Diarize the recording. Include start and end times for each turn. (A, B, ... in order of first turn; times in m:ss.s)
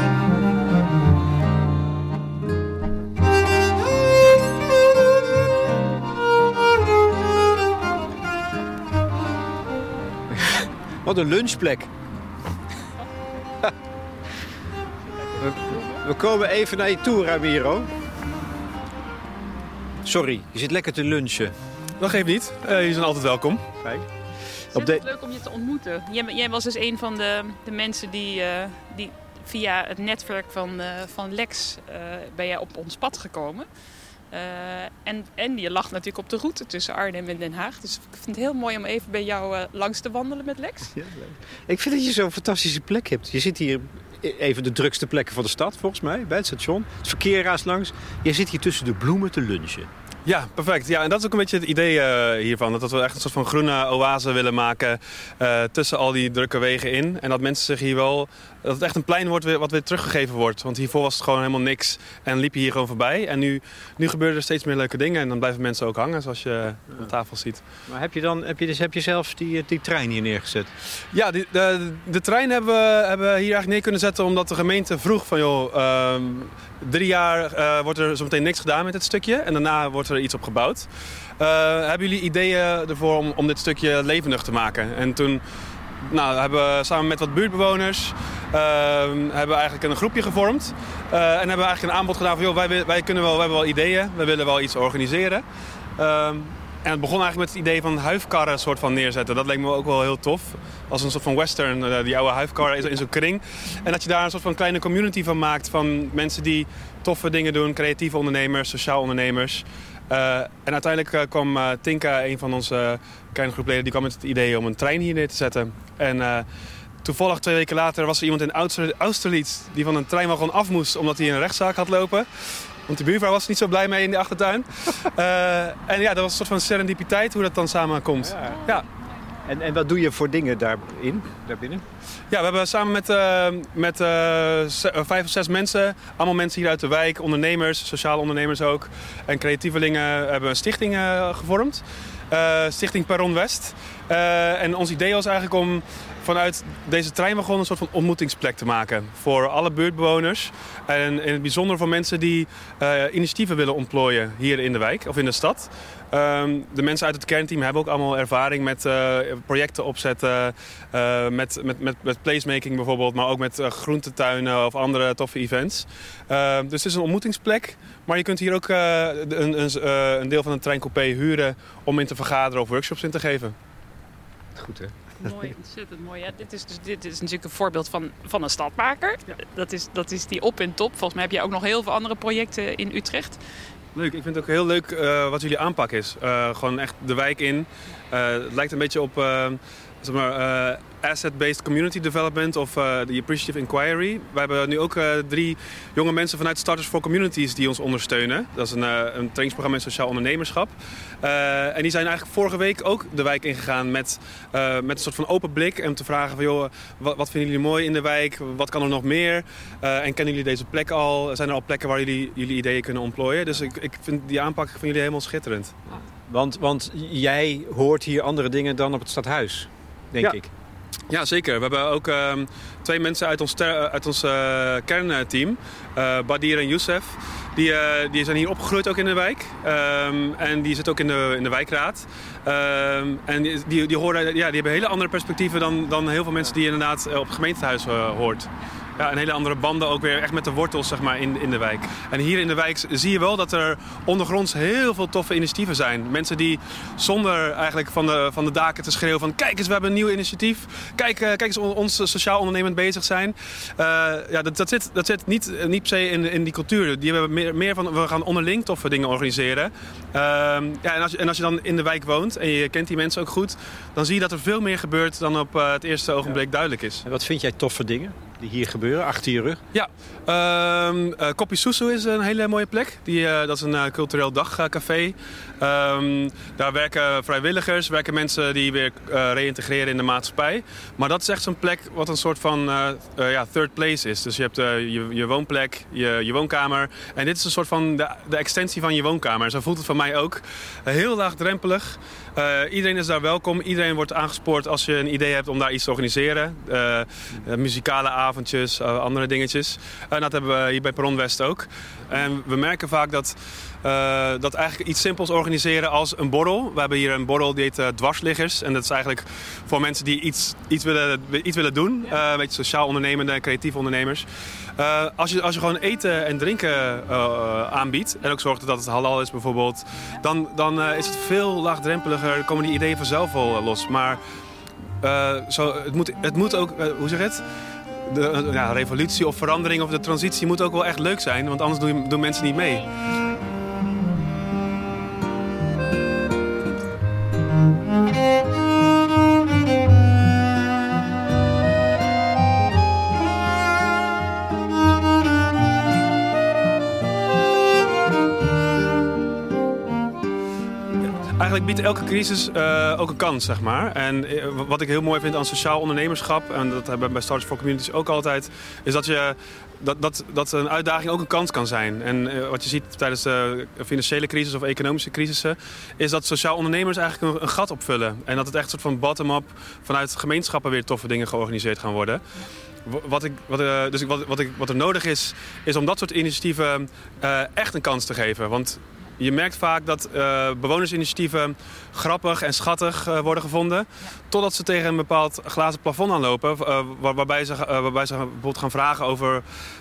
0:10.3-0:11.9 A
0:15.4-0:17.9 A
0:20.0-0:21.5 A
0:22.0-0:23.6 B
0:23.8-0:24.1 A
0:24.6-0:25.0 A
0:24.7-0:33.7 C
0:34.3-0:40.9 C
0:40.9-0:49.9 A
0:50.2-1:07.6 B
1:07.9-1:10.7 A
1:11.1-1:20.9 B
1:21.4-1:25.4 B
1:26.0-1:35.4 B
1:36.0-1:56.5 B
1:57.0-2:08.8 B
2:08.2-2:08.8 A
2:09.4-2:11.8 A
2:12.3-2:53.5 B
2:54.6-2:54.9 A
2:55.2-3:03.4 C
3:03.9-3:35.7 B
3:36.3-3:40.5 A
3:41.1-4:27.0 B
4:27.0-4:29.6 A
4:29.7-5:14.2 B
5:14.8-5:24.2 B
5:25.0-5:27.4 B
5:28.0-5:32.9 B
5:51.4-6:12.2 B
6:12.8-6:29.4 B